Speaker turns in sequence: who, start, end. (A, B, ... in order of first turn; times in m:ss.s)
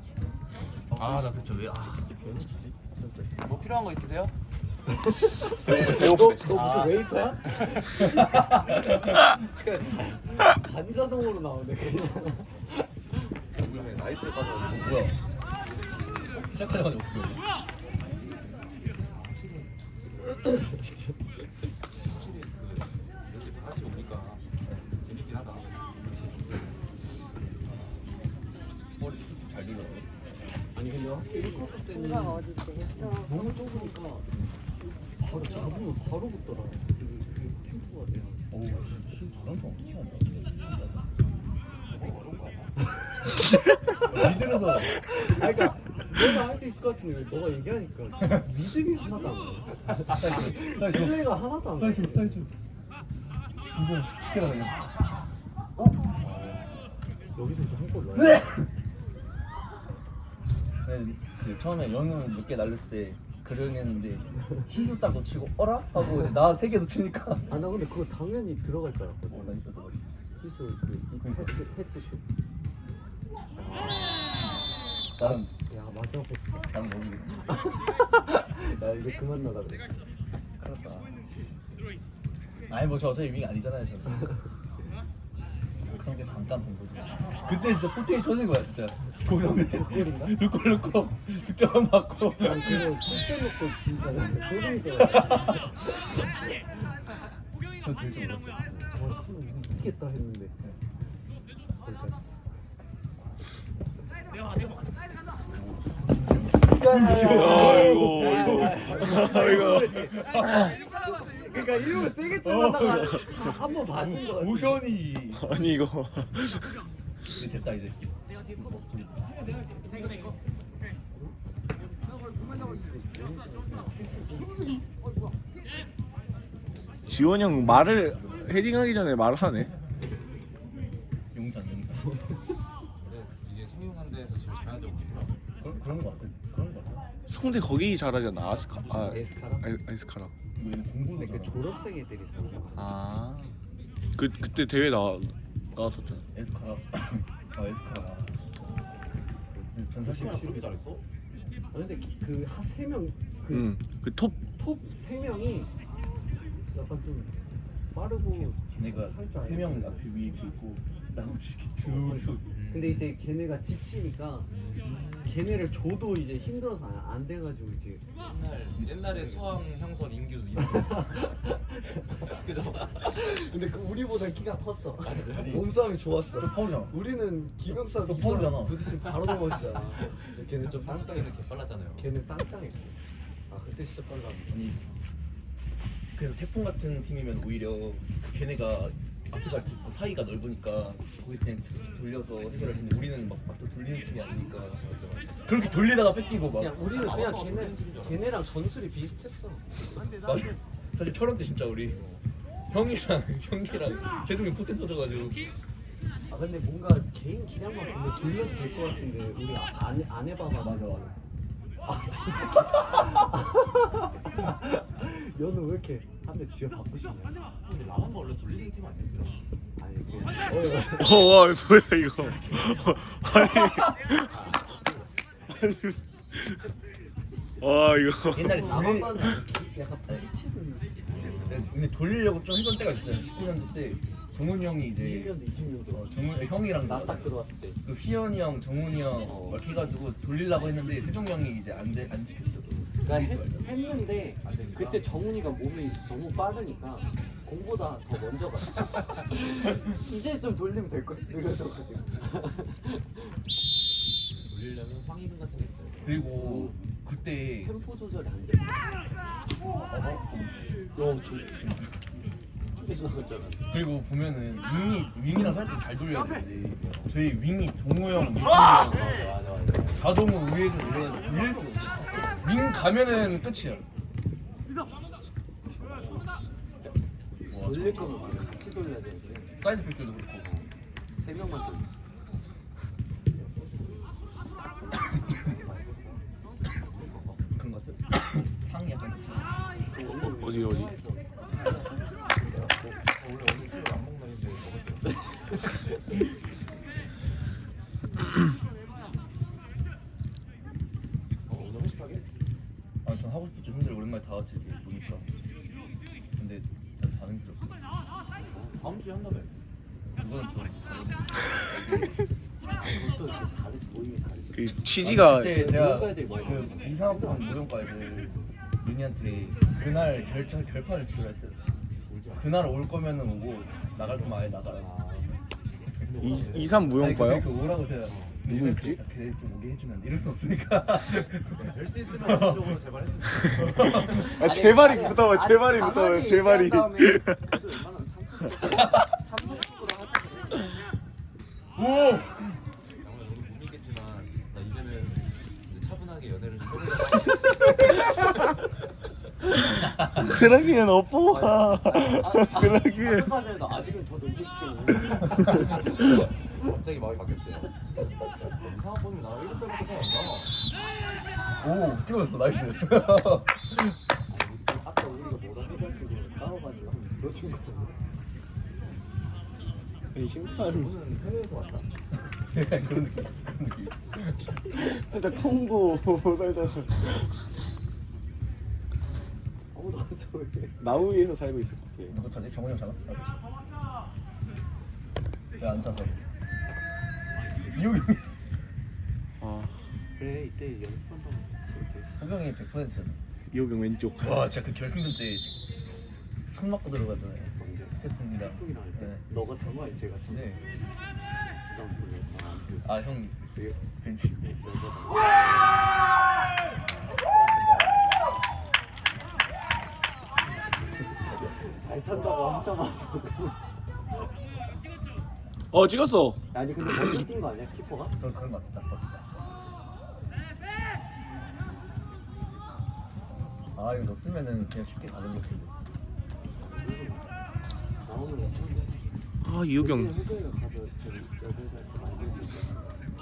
0:00.9-0:02.3 A
0:01.0-0:01.2 B
0:02.9-0:03.3 A
0:03.4-0:04.3 C
0:04.9-0:13.2 B
0:05.6-0:06.1 A
0:05.8-0:06.9 D
0:06.6-0:06.9 A
0:07.8-0:09.2 A
0:13.5-0:15.0 C
0:14.7-0:15.2 A
0:16.4-0:17.4 A
0:18.5-0:19.7 C
0:20.4-0:21.2 B
0:22.0-0:25.7 C
0:26.1-0:26.4 B
0:29.0-0:30.1 A
0:30.7-0:34.3 B
0:35.2-0:38.8 B
0:38.5-0:41.1 A
0:41.9-0:42.8 C
0:44.0-0:45.0 A
0:44.1-0:52.5 B
0:50.0-0:52.5 A
0:53.7-0:54.9 A
0:55.8-0:56.7 A
0:57.3-0:58.5 B
0:58.2-0:58.7 A
1:00.8-1:07.6 A
1:07.5-1:09.6 B
1:09.3-1:10.0 A
1:10.4-1:12.2 B
1:11.2-1:11.6 A
1:13.6-1:14.3 B
1:15.2-1:15.5 A
1:15.2-1:16.7 B
1:16.7-1:17.6 A
1:17.5-1:20.0 B
1:20.6-1:21.2 A
1:22.7-1:24.3 A
1:25.8-1:33.1 A
1:29.2-1:30.4 B
1:32.4-1:35.9 B
1:35.0-1:35.6 A
1:37.8-1:38.6 A
1:38.8-1:40.7 B
1:41.8-1:42.3 B
1:45.5-1:50.7 A
1:46.6-1:54.9 B
1:47.2-1:50.1 D
1:52.4-1:55.6 A
1:55.3-1:56.8 D
1:57.2-1:59.4 A
2:02.3-2:04.8 B
2:07.1-2:09.7 D
2:07.6-2:08.5 A
2:11.3-2:12.2 A
2:13.0-2:15.4 C
2:15.6-2:17.0 A
2:17.3-2:20.3 D
2:18.4-2:19.2 C
2:18.9-2:19.7 B
2:20.6-2:21.6 A
2:21.2-2:23.2 B
2:22.7-2:23.6 D
2:24.2-2:26.2 D
2:26.3-2:28.4 A
2:29.7-2:30.6 A
2:30.0-2:31.0 C
2:30.3-2:30.6 B
2:31.7-2:33.7 B
2:33.5-2:34.4 D
2:34.5-2:35.7 B
2:36.7-2:37.3 B
2:37.9-2:40.4 B
2:38.7-2:42.5 A
2:41.8-2:44.5 B
2:42.5-2:43.1 C
2:44.5-2:45.4 C
2:45.2-2:48.0 B
2:48.2-2:51.3 C
2:48.8-2:49.4 A
2:51.0-2:52.3 B
2:52.1-2:53.1 C
2:52.9-3:01.4 B
2:55.0-2:55.7 C
2:56.3-2:57.0 A
2:57.7-2:59.1 A
2:59.6-3:02.1 C
3:02.0-3:03.0 B
3:03.5-3:04.6 B
3:04.5-3:04.8 A
3:06.1-3:14.8 A
3:12.5-3:12.8 C
3:14.8-3:15.5 C
3:15.4-3:16.8 A
3:16.5-3:19.8 B
3:16.8-3:18.4 C
3:20.2-3:22.0 A
3:21.9-3:22.2 C
3:22.7-3:25.4 A
3:26.3-3:31.1 B
3:30.5-3:31.1 A
3:31.8-3:37.4 B
3:37.6-3:39.4 C
3:39.8-3:41.3 B
3:40.9-3:44.3 D
3:42.3-3:43.6 B
3:44.4-3:44.9 B
3:45.6-3:46.6 D
3:47.6-3:48.7 D
3:48.3-3:49.4 A
3:48.4-3:51.4 B
3:51.1-3:51.7 C
3:51.3-3:55.4 A
3:54.9-3:57.8 B
3:55.9-4:03.7 A
3:59.2-3:59.6 B
4:02.9-4:13.2 B
4:04.4-4:05.1 C
4:14.3-4:16.2 C
4:16.0-4:17.7 A
4:16.3-4:16.8 B
4:17.6-4:18.8 B
4:19.8-4:21.9 A
4:21.0-4:21.5 B
4:22.7-4:23.6 B
4:23.7-4:29.2 A
4:28.5-4:30.1 B
4:29.9-4:33.9 A
4:35.6-4:36.4 B
4:37.5-4:39.6 B
4:37.5-4:38.6 A
4:39.6-4:40.7 A
4:41.1-4:42.0 B
4:43.4-4:43.7 B
4:44.9-4:46.2 B
4:46.7-4:47.5 C
4:47.6-4:49.6 A
4:49.9-4:51.7 B
4:50.1-4:50.9 D
4:52.4-4:55.7 C
4:52.5-4:52.8 B
5:01.5-5:02.2 C
5:03.0-5:05.3 A
5:06.4-5:07.8 A
5:08.4-5:08.9 B
5:08.8-5:09.6 C
5:10.2-5:12.2 A
5:12.8-5:14.7 B
5:14.5-5:15.6 D
5:14.9-5:21.6 A
5:15.4-5:17.5 B
5:22.0-5:22.6 C
5:22.3-5:24.9 A
5:24.0-5:25.4 C
5:26.0-5:26.9 C
5:26.2-5:27.5 D
5:26.9-5:31.6 A
5:28.0-5:28.4 C
5:28.5-5:29.0 D
5:31.4-5:34.3 C
5:32.2-5:32.7 A
5:33.7-5:34.2 A
5:34.0-5:37.4 D
5:34.1-5:40.7 B
5:41.8-5:42.4 A
5:42.9-5:48.0 C
5:50.1-5:53.5 D
5:51.3-5:56.1 B
5:55.5-5:57.7 C
5:58.5-6:00.6 C
6:01.6-6:03.9 A
6:04.3-6:08.0 B
6:10.1-6:11.0 D
6:10.6-6:11.9 C
6:12.4-6:14.5 A
6:14.7-6:17.1 D
6:19.7-6:20.9 B
6:20.8-6:22.2 D
6:22.1-6:23.4 A
6:25.6-6:26.2 A
6:27.7-6:28.3 A
6:29.4-6:29.8 D
6:30.2-6:32.2 B
6:32.2-6:33.2 A
6:33.5-6:34.3 D
6:34.2-6:35.5 A
6:36.5-6:39.2 A
6:37.5-6:40.6 B
6:40.3-6:40.6 A
6:41.6-6:43.8 B
6:42.8-6:44.5 A
6:44.4-6:45.4 B
6:51.0-6:53.6 B
6:55.7-6:56.4 D
6:56.5-6:58.1 B
6:58.2-6:59.2 A
7:03.7-7:05.7 A
7:06.6-7:07.3 B
7:08.0-7:09.0 B
7:09.4-7:10.2 D
7:09.7-7:13.0 B